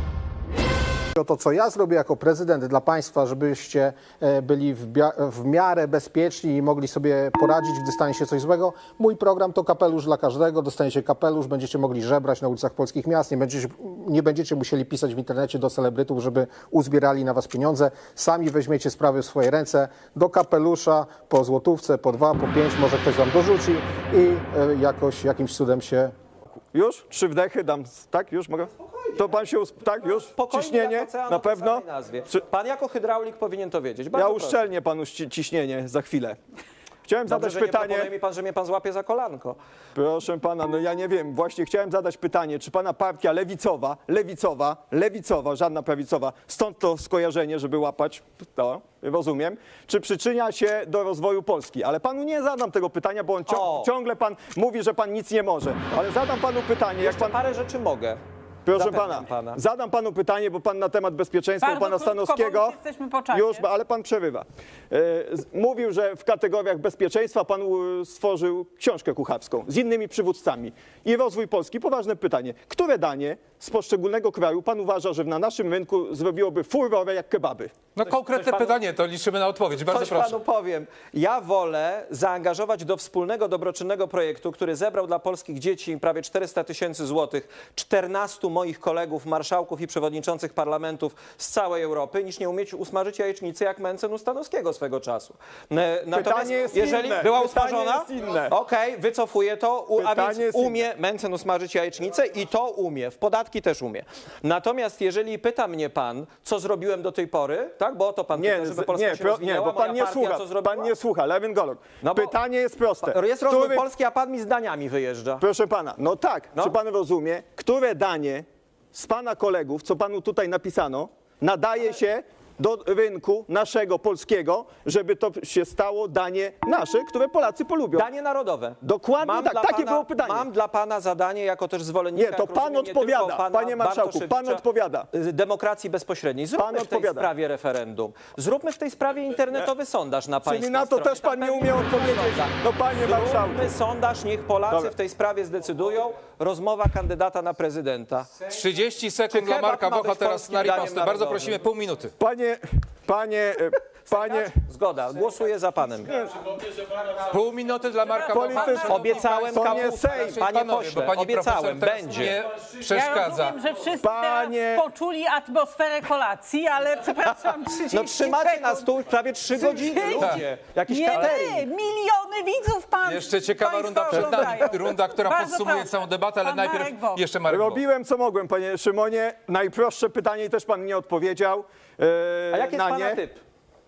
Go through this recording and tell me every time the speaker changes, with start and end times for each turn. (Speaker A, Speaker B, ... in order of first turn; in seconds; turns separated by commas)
Speaker A: 1.1-26.1, Speaker B: 26.7-31.8, Speaker C: 29.9-34.6, Speaker B: 34.1-36.4, Speaker B: 37.0-38.1, Speaker C: 37.3-39.6, Speaker B: 39.9-57.4, Speaker C: 53.5-53.9, Speaker C: 57.0-58.2, Speaker B: 58.6-77.9, Speaker C: 58.7-59.6, Speaker D: 61.6-63.7, Speaker E: 77.9-80.4, Speaker C: 78.1-78.8, Speaker C: 79.8-110.9, Speaker B: 96.1-98.5, Speaker B: 100.0-100.8, Speaker B: 108.3-113.8, Speaker C: 112.0-112.3, Speaker C: 113.0-115.4, Speaker B: 115.4-128.1, Speaker C: 127.9-148.4, Speaker B: 128.8-130.5, Speaker B: 132.1-135.1, Speaker B: 136.6-137.3, Speaker B: 140.4-143.7, Speaker E: 148.4-152.1, Speaker C: 149.3-151.6, Speaker B: 152.2-154.5, Speaker C: 154.1-156.1, Speaker B: 156.1-156.6, Speaker E: 157.1-163.6, Speaker D: 158.1-159.3, Speaker B: 158.3-160.4, Speaker C: 158.8-162.4, Speaker D: 162.8-168.9, Speaker B: 164.0-164.9, Speaker C: 167.2-171.7, Speaker D: 169.5-170.3, Speaker E: 170.1-170.4, Speaker D: 170.9-177.3, Speaker E: 171.1-171.5, Speaker E: 173.0-177.8, Speaker B: 177.4-183.2, Speaker C: 182.5-183.4